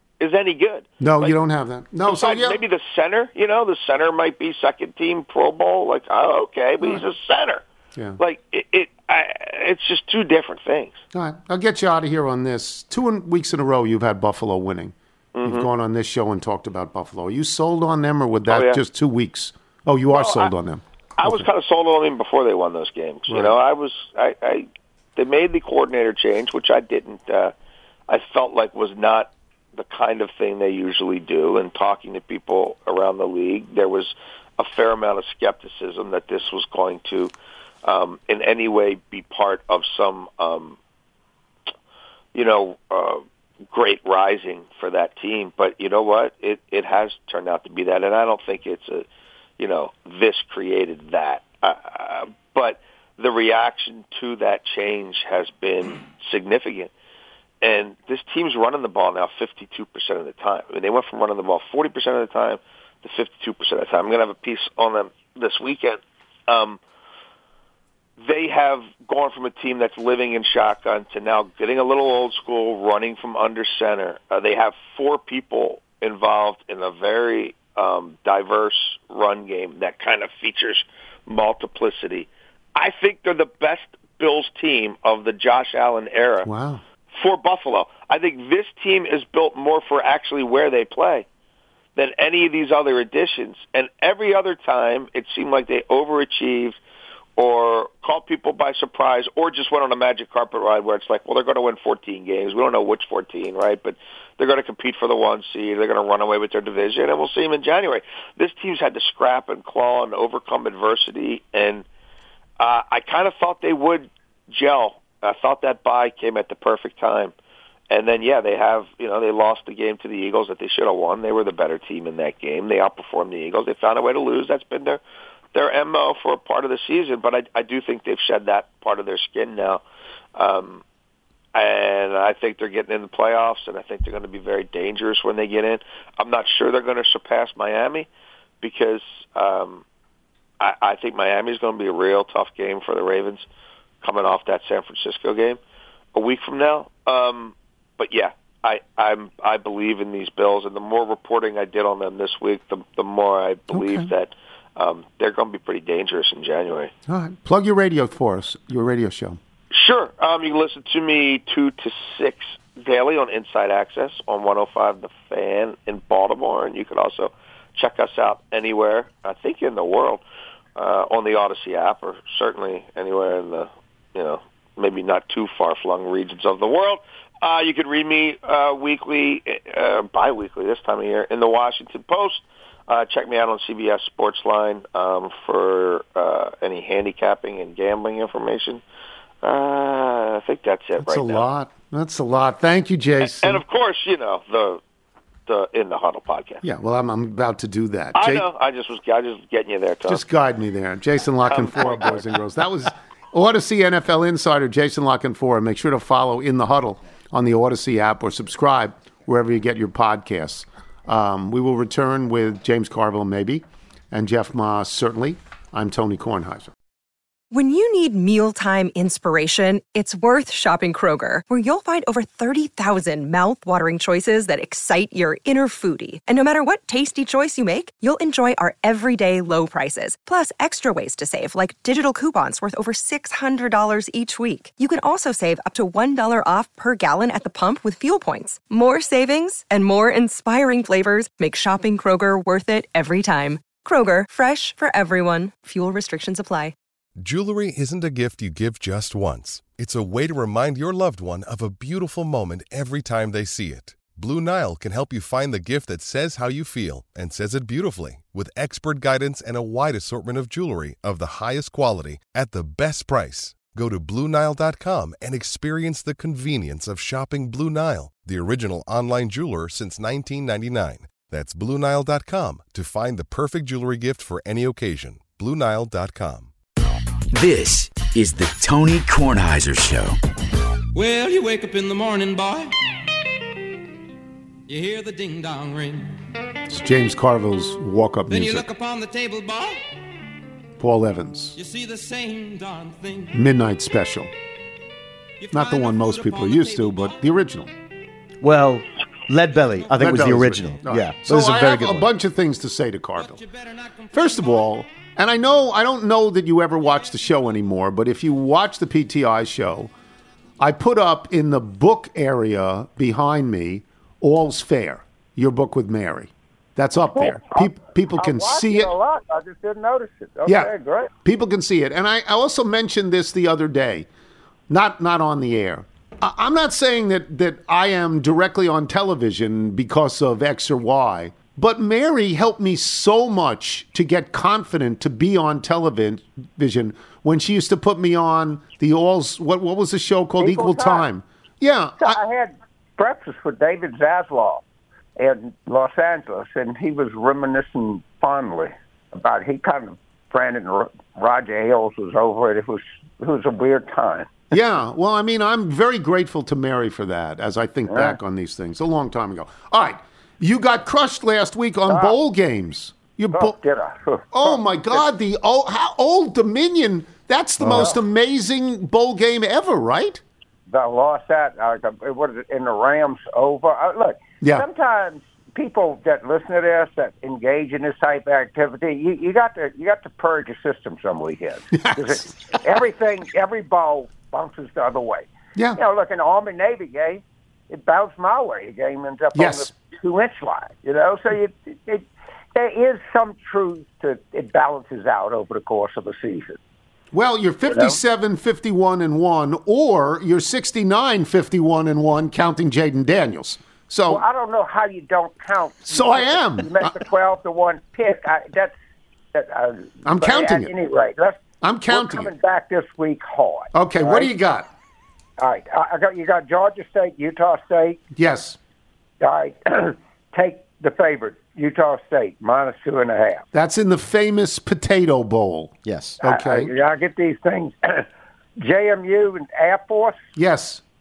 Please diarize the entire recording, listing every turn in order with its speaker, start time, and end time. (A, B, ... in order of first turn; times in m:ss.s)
0:00.2-0:01.4 A
0:01.0-0:02.6 B
0:02.0-0:07.6 A
0:08.2-0:11.0 A
0:11.1-0:21.4 B
0:15.3-0:15.7 A
0:18.5-0:18.8 A
0:20.1-0:20.5 A
0:21.2-0:27.5 A
0:23.3-0:23.5 B
0:28.1-0:37.3 A
0:37.8-0:40.8 A
0:42.3-0:49.0 A
0:49.6-0:56.9 A
0:57.6-1:06.8 A
1:08.2-1:26.5 A
1:26.4-1:26.8 B
1:27.1-1:31.2 A
1:32.0-1:36.8 A
1:37.4-1:51.8 A
1:52.6-1:57.3 A
1:57.9-2:05.0 A
2:05.5-2:09.8 A
2:10.4-2:10.8 A
2:11.5-2:18.1 A
2:18.6-2:19.8 A
2:20.6-2:23.4 A
2:24.0-2:25.6 A
2:26.1-2:36.9 A
2:33.7-2:34.1 B
2:37.1-2:39.4 B
2:39.7-2:50.2 A
2:50.8-3:08.8 A
3:09.4-3:11.4 A
3:11.0-3:13.6 B
3:13.2-3:14.8 A
3:15.5-3:16.6 A
3:16.6-3:18.4 B
3:18.1-3:20.2 A
3:20.1-3:36.7 B
3:21.5-3:22.2 A
3:37.5-4:06.7 C
4:07.2-4:36.5 D
4:37.3-4:40.1 E
4:40.9-4:42.7 F
4:44.7-4:46.1 F
4:46.7-4:48.7 B
4:48.3-4:49.8 F
4:50.8-4:51.6 B
4:51.6-4:53.3 F
4:53.3-4:54.3 B
4:55.4-4:57.2 F
4:55.5-4:57.7 B
4:58.4-5:02.1 G
5:00.0-5:03.4 B
5:03.2-5:04.8 F
5:04.1-5:09.9 B
5:10.6-5:18.9 B
5:17.0-5:21.1 H
5:20.4-5:20.7 B
5:21.2-5:24.1 B
5:24.7-5:42.2 B
5:40.4-5:41.0 H
5:42.0-5:44.6 H
5:45.2-5:54.3 H
5:54.5-6:03.6 B
5:57.9-5:58.2 H
6:01.9-6:02.2 H
6:03.3-6:05.0 H
6:04.3-6:10.2 B
6:07.6-6:08.0 H
6:10.7-6:36.6 H
6:21.7-6:22.4 B
6:29.3-6:29.7 B
6:37.1-6:44.2 B
6:37.7-6:38.0 H
6:44.1-6:48.7 H
6:45.9-6:47.0 B
6:49.3-6:54.3 H
6:50.0-6:50.7 B
6:51.6-6:52.3 B
6:53.7-6:54.7 B
6:55.4-6:58.0 H
6:58.2-6:58.6 B
6:59.2-7:03.4 H
7:03.5-7:06.7 B
7:05.8-7:06.2 G
7:06.2-7:08.1 H
7:08.6-7:10.2 H
7:10.4-7:10.8 B